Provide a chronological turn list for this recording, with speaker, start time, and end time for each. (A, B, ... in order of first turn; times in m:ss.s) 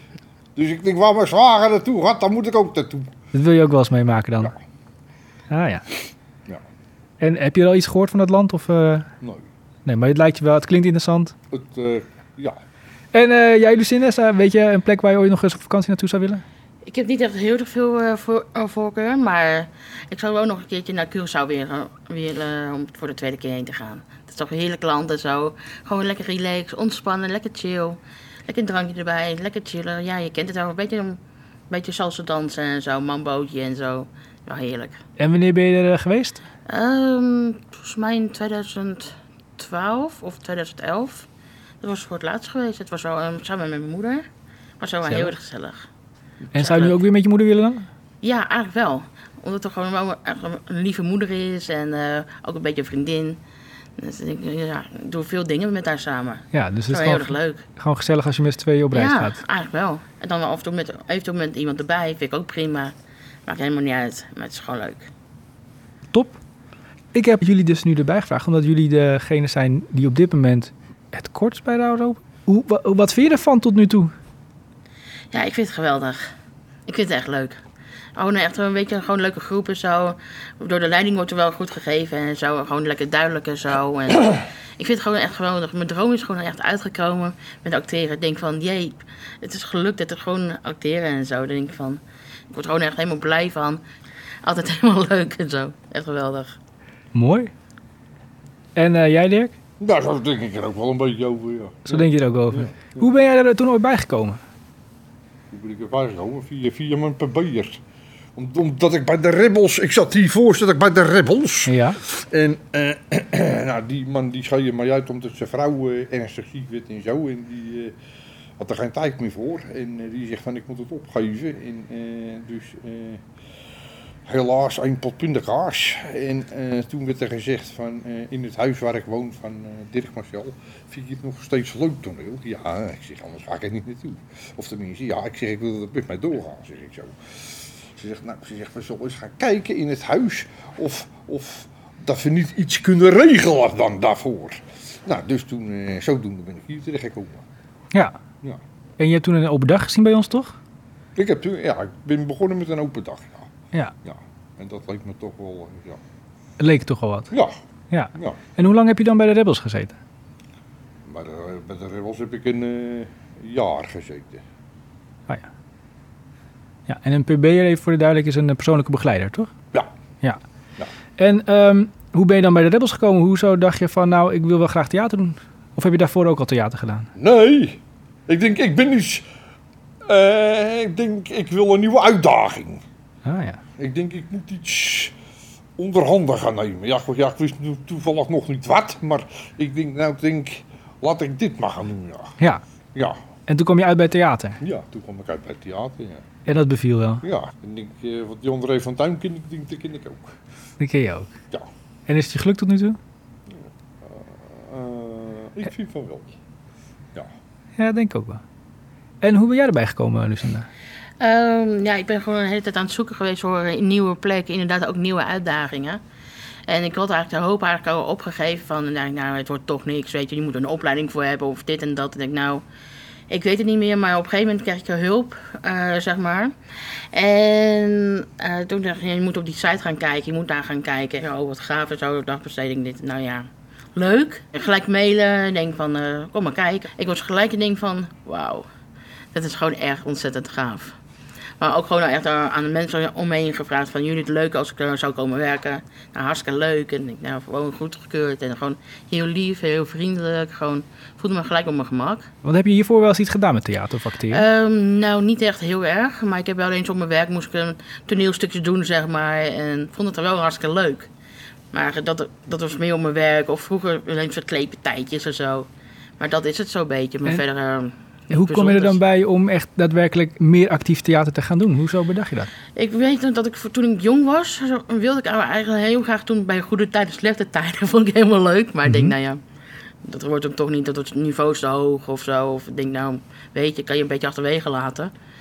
0:00.6-0:03.1 A
0:03.3-0:04.5 B
0:05.5-0:05.8 B
0:07.2-0:09.1 B
0:09.9-0:11.4 B
0:11.5-0:12.6 A
0:13.1-0:16.4 B
0:16.8-0:31.2 C
0:31.7-0:35.0 C
0:35.2-0:36.4 B
0:36.7-0:41.3 C
0:41.8-0:44.3 C
0:44.8-0:45.8 C
0:45.1-0:45.3 B
0:46.5-0:47.9 B
0:46.5-0:47.0 C
0:48.2-0:53.4 C
0:54.0-0:57.6 C
0:56.5-0:59.4 B
0:58.9-1:02.9 C
1:03.4-1:05.1 C
1:06.1-1:06.4 B
1:07.1-1:14.1 B
1:15.3-1:16.3 C
1:16.9-1:17.6 C
1:18.2-1:33.8 C
1:34.4-1:36.6 C
1:37.1-1:37.5 B
1:38.8-1:39.6 B
1:39.8-1:43.0 A
1:41.9-1:44.4 B
1:45.5-1:47.8 A
1:48.4-1:58.0 A
1:51.7-1:52.0 B
1:58.6-2:03.2 A
2:04.2-2:27.4 A
2:29.0-2:30.6 B
2:31.2-2:33.5 A
2:34.0-2:36.0 A
2:36.6-2:37.3 B
2:37.3-2:37.6 A
2:37.9-2:40.0 B
2:41.0-2:44.4 A
2:46.9-2:49.5 B
2:51.2-2:57.1 B
2:57.2-2:59.3 A
3:00.0-3:02.8 A
3:03.2-3:03.6 B
3:03.8-3:05.2 A
3:05.8-3:12.4 A
3:13.5-3:14.6 B
3:14.6-3:16.2 A
3:16.5-3:17.2 B
3:17.2-3:20.4 A
3:20.8-3:21.3 B
3:22.1-3:23.0 B
3:23.5-3:26.4 A
3:27.8-3:28.4 B
3:29.2-3:30.7 B
3:31.2-3:36.0 C
3:36.7-3:42.6 C
3:43.3-3:46.5 C
3:47.1-3:58.7 C
3:59.3-4:01.0 C
4:01.6-4:12.3 C
4:12.4-4:14.4 B
4:14.3-4:21.1 C
4:21.7-4:25.7 C
4:26.2-4:29.0 C
4:28.3-4:32.5 B
4:32.8-4:39.4 C
4:38.9-4:39.1 B
4:40.0-4:45.1 C